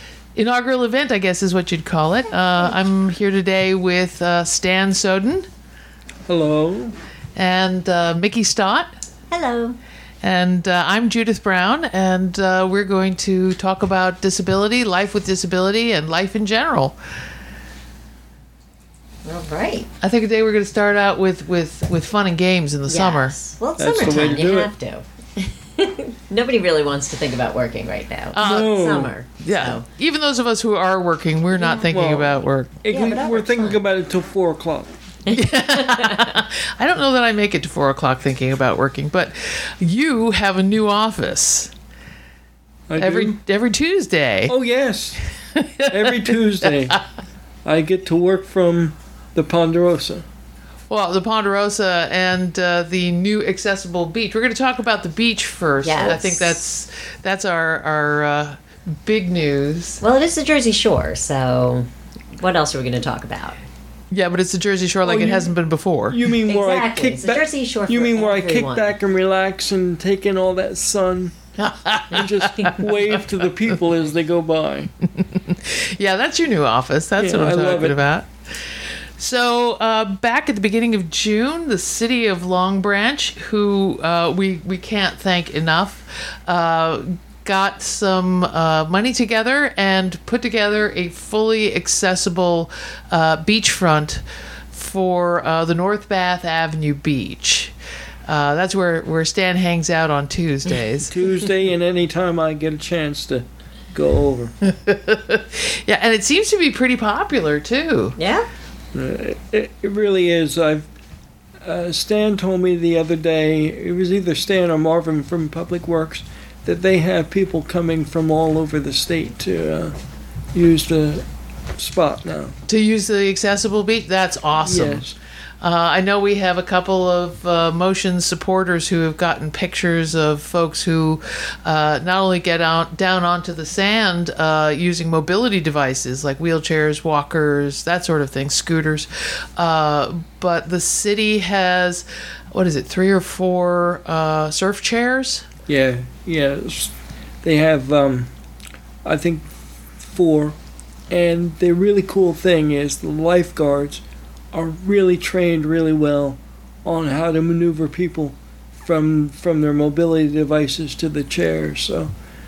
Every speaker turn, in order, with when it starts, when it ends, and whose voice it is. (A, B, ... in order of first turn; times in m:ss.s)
0:00.4-0:05.5 A
0:02.3-0:02.8 B
0:06.3-0:07.0 C
0:07.4-0:08.9 A
0:09.3-0:09.8 B
0:10.2-0:17.0 A
0:19.2-0:19.9 B
0:20.0-0:23.4 A
0:22.9-0:29.8 B
0:23.8-0:24.7 C
0:28.3-0:28.8 A
0:28.4-0:29.1 C
0:29.4-0:32.8 A
0:31.6-0:31.9 B
0:31.9-0:34.9 C
0:32.9-0:33.8 B
0:35.3-0:36.4 B
0:35.3-0:41.7 A
0:42.9-0:43.4 C
0:43.0-0:44.5 A
0:44.5-0:45.2 C
0:45.5-0:47.0 A
0:45.9-0:47.0 C
0:47.6-0:50.2 C
0:50.9-1:00.0 A
0:55.8-0:56.6 B
1:00.0-1:03.6 B
1:04.1-1:06.2 A
1:05.0-1:05.5 C
1:06.1-1:11.3 C
1:06.4-1:08.9 B
1:11.6-1:13.2 A
1:12.1-1:14.9 C
1:15.2-1:18.3 A
1:17.2-1:18.0 C
1:19.2-1:34.2 A
1:34.7-1:37.7 A
1:38.3-1:41.1 A
1:41.1-1:44.5 C
1:44.6-1:48.2 A
1:48.2-1:48.5 B
1:48.9-1:50.9 C
1:51.6-2:00.0 C
2:00.5-2:01.2 C
2:01.8-2:02.6 C
2:02.7-2:05.0 A
2:04.6-2:05.2 C
2:05.6-2:25.5 A
2:25.7-2:28.3 C
2:29.0-2:30.6 C
2:31.1-2:42.1 C